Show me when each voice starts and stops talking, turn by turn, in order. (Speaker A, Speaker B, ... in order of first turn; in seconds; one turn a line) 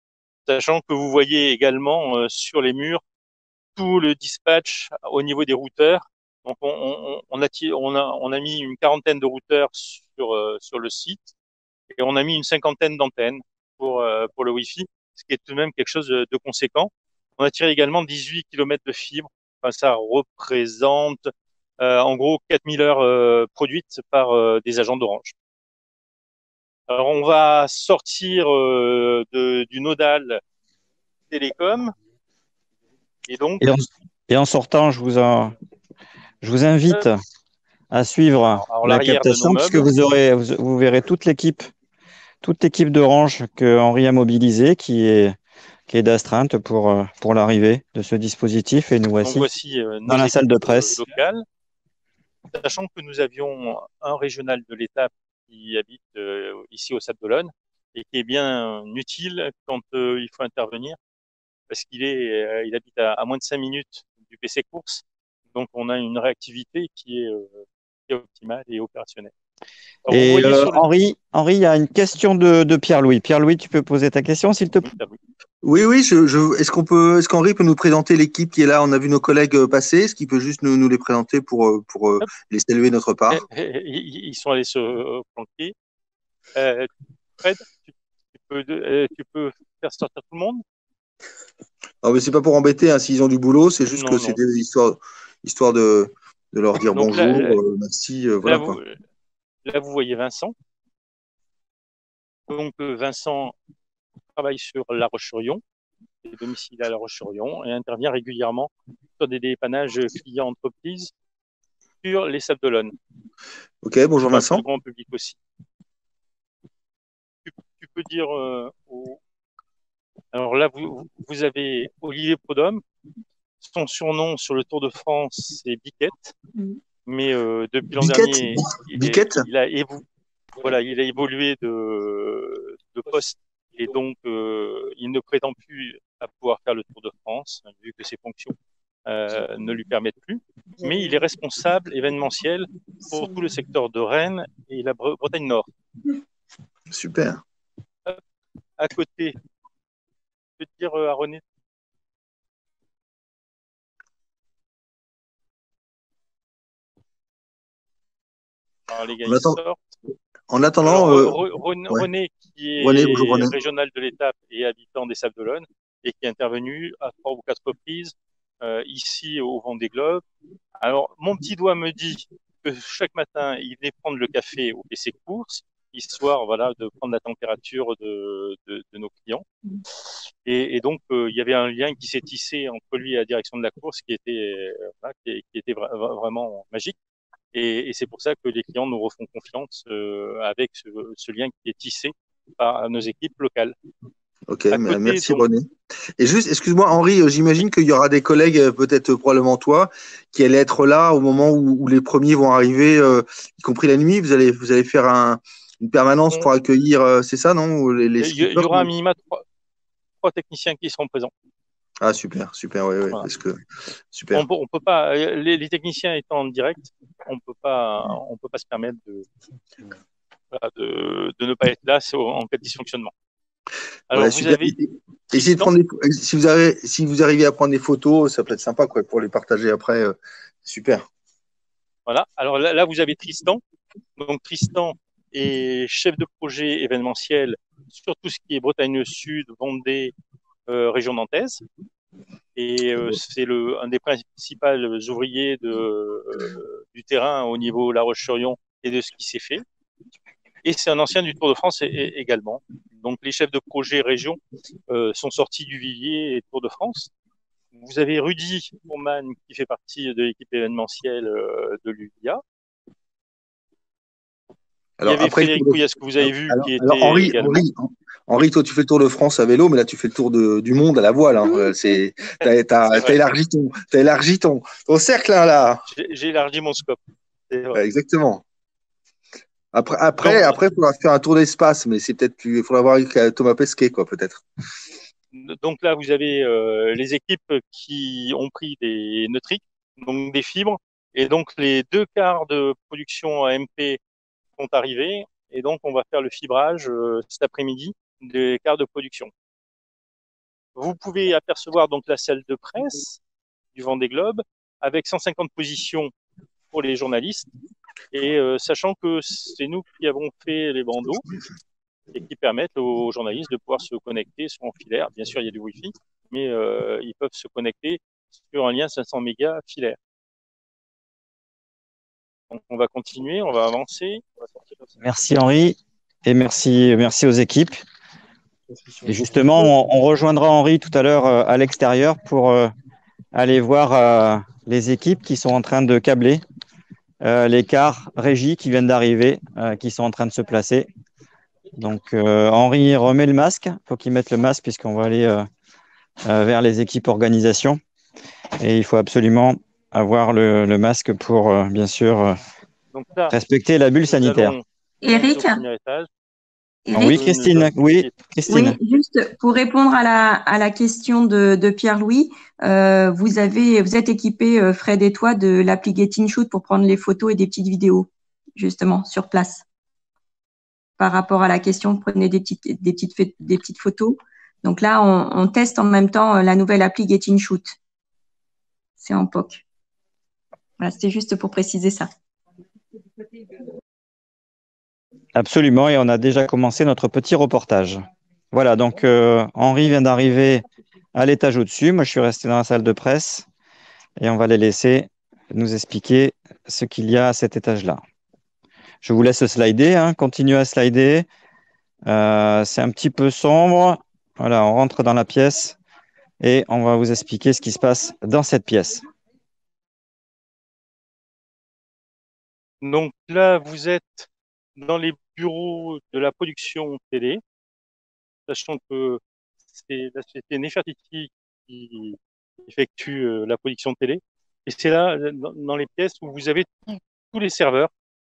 Speaker A: 0.5-3.0
Speaker A: 3.8-11.3
Speaker A: 11.9-25.3
Speaker A: 26.9-30.4
Speaker A: 31.3-31.9
Speaker A: 33.3-33.6
Speaker B: 33.6-35.5
Speaker B: 36.4-37.2
Speaker B: 37.9-41.7
Speaker A: 38.6-39.9
Speaker B: 42.4-45.4
Speaker B: 45.9-49.5
Speaker A: 49.2-51.5
Speaker B: 50.1-51.0
Speaker A: 52.5-61.0
Speaker A: 61.7-65.0
Speaker A: 65.5-69.3
Speaker A: 70.1-70.8
Speaker B: 70.1-74.9
Speaker A: 74.8-75.2
Speaker C: 75.6-83.4
Speaker A: 83.3-85.7
Speaker A: 86.5-86.9
Speaker A: 87.4-90.6
Speaker C: 92.0-98.8
Speaker A: 93.9-94.4
Speaker A: 96.9-97.6
Speaker A: 98.4-99.0
Speaker A: 99.7-100.5
Speaker A: 102.5-103.5
Speaker A: 104.4-105.6
Speaker A: 106.2-111.1
Speaker A: 112.0-112.9
Speaker C: 113.8-114.6
Speaker A: 114.2-115.4
Speaker A: 117.5-119.2
Speaker A: 120.3-122.8
Speaker A: 123.6-126.3
Speaker A: 127.1-130.1
Speaker C: 128.0-129.4
Speaker A: 130.6-138.6
Speaker A: 139.1-145.7
Speaker C: 146.9-147.4
Speaker A: 148.8-149.3
Speaker A: 150.6-151.4
Speaker A: 158.9-159.8
Speaker C: 159.3-159.6
Speaker C: 160.5-161.4
Speaker A: 160.8-170.2
Speaker C: 162.8-163.5
Speaker A: 170.8-179.4
Speaker A: 180.5-187.0
Speaker A: 187.5-193.8
Speaker C: 194.5-208.9
Speaker A: 194.7-195.4
Speaker A: 208.2-209.4
Speaker A: 210.2-211.3
Speaker C: 212.0-213.6
Speaker C: 214.1-214.4
Speaker A: 214.3-219.3
Speaker A: 220.5-223.1
Speaker A: 224.1-224.8
Speaker C: 224.1-231.1
Speaker A: 225.3-225.7
Speaker A: 232.1-233.6
Speaker A: 234.2-240.1
Speaker A: 240.7-241.6
Speaker A: 242.6-249.6
Speaker A: 250.6-254.4
Speaker A: 254.9-257.1
Speaker A: 257.7-262.4
Speaker C: 265.0-275.8
Speaker A: 265.1-267.6
Speaker A: 272.4-273.2
Speaker A: 275.9-277.8
Speaker C: 277.8-278.4
Speaker C: 279.7-284.4
Speaker A: 280.2-280.6
Speaker A: 285.3-294.0
Speaker A: 294.6-299.3
Speaker A: 300.8-303.2
Speaker A: 303.8-306.1
Speaker A: 306.7-307.5
Speaker A: 308.1-311.3
Speaker A: 312.1-320.0
Speaker A: 322.5-324.2
Speaker B: 325.0-327.8
Speaker B: 329.1-332.7
Speaker B: 333.3-336.4
Speaker B: 337.2-340.9
Speaker B: 341.8-345.5
Speaker B: 346.2-347.8
Speaker B: 348.6-352.4
Speaker A: 352.9-353.4
Speaker B: 353.3-354.6
Speaker A: 354.0-356.1
Speaker D: 355.0-355.6
Speaker D: 356.9-357.2
Speaker A: 356.9-358.1
Speaker B: 356.9-358.8
Speaker D: 358.5-369.6
Speaker D: 371.0-377.8
Speaker D: 379.0-379.6
Speaker D: 380.8-382.1
Speaker B: 385.4-388.0
Speaker B: 388.5-393.5
Speaker B: 394.2-398.0
Speaker B: 399.0-401.3
Speaker B: 402.1-405.8
Speaker B: 406.4-409.0
Speaker A: 412.8-417.4
Speaker A: 418.5-419.2
Speaker A: 419.7-427.9